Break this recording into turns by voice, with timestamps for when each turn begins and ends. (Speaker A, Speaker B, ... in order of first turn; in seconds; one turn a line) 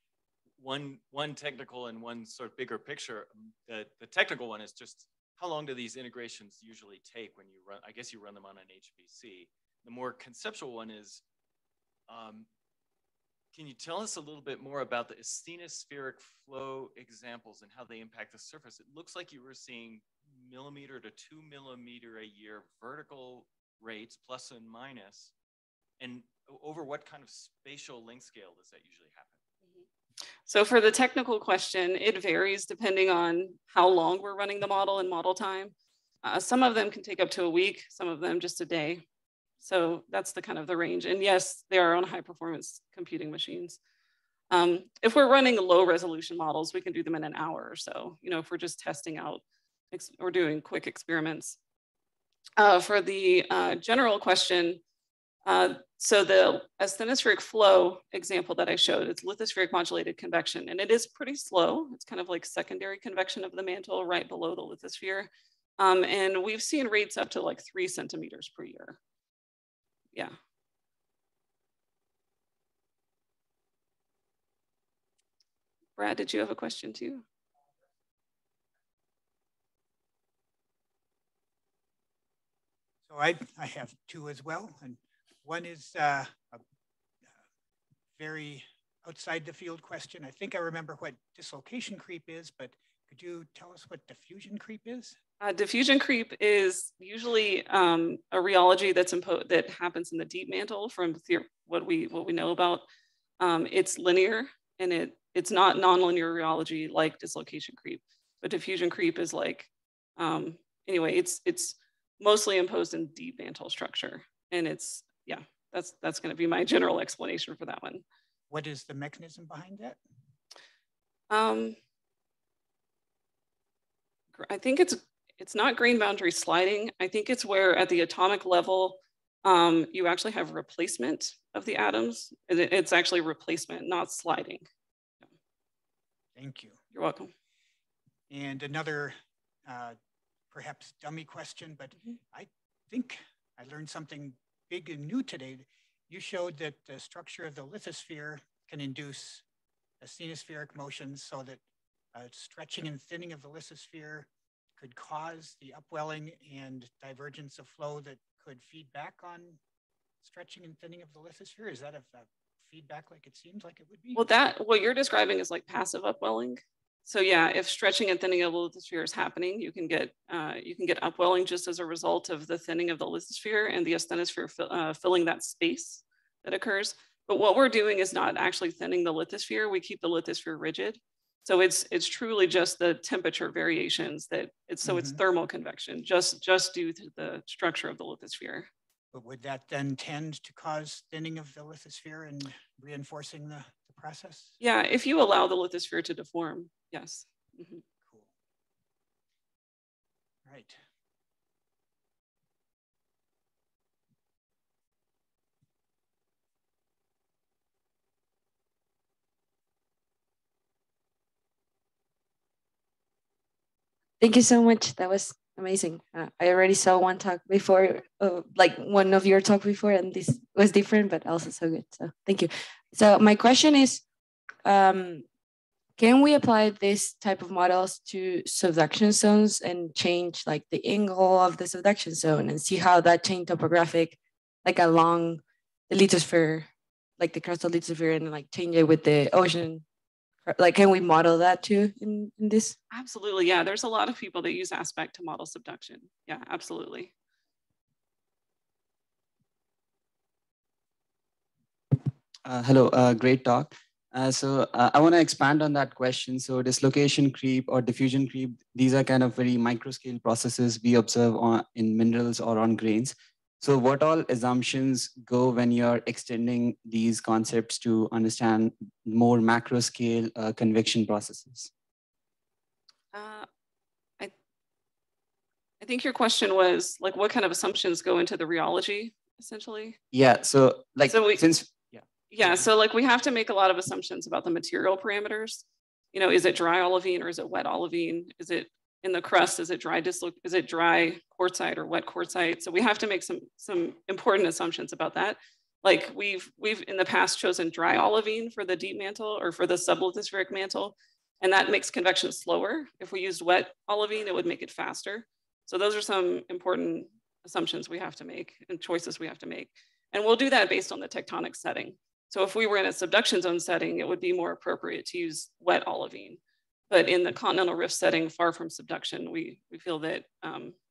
Speaker A: 0.6-11.2
Speaker A: 12.1-12.5
Speaker A: 13.5-25.3
Speaker A: 26.0-29.4
Speaker B: 30.5-39.0
Speaker B: 39.6-43.8
Speaker B: 44.5-51.6
Speaker B: 52.6-54.8
Speaker B: 55.5-69.0
Speaker B: 76.0-77.2
Speaker C: 83.1-86.6
Speaker C: 88.2-95.2
Speaker B: 95.4-102.9
Speaker B: 103.4-118.0
Speaker C: 118.5-120.0
Speaker B: 121.3-121.8
Speaker B: 124.4-134.6
Speaker C: 136.3-136.8
Speaker B: 136.9-137.3
Speaker C: 138.3-139.9
Speaker C: 140.5-149.4
Speaker C: 150.0-151.6
Speaker C: 152.1-159.6
Speaker C: 160.2-164.2
Speaker B: 164.1-188.7
Speaker C: 184.8-185.2
Speaker C: 189.1-194.5
Speaker B: 194.6-197.8
Speaker C: 198.0-198.3
Speaker C: 200.4-200.8
Speaker D: 214.2-224.0
Speaker D: 224.6-225.2
Speaker D: 226.0-236.7
Speaker D: 237.2-239.8
Speaker D: 240.5-242.7
Speaker B: 242.9-247.1
Speaker E: 252.4-271.7
Speaker B: 273.1-273.4
Speaker B: 275.8-280.0
Speaker E: 280.1-281.9
Speaker B: 281.1-281.4
Speaker B: 282.3-320.8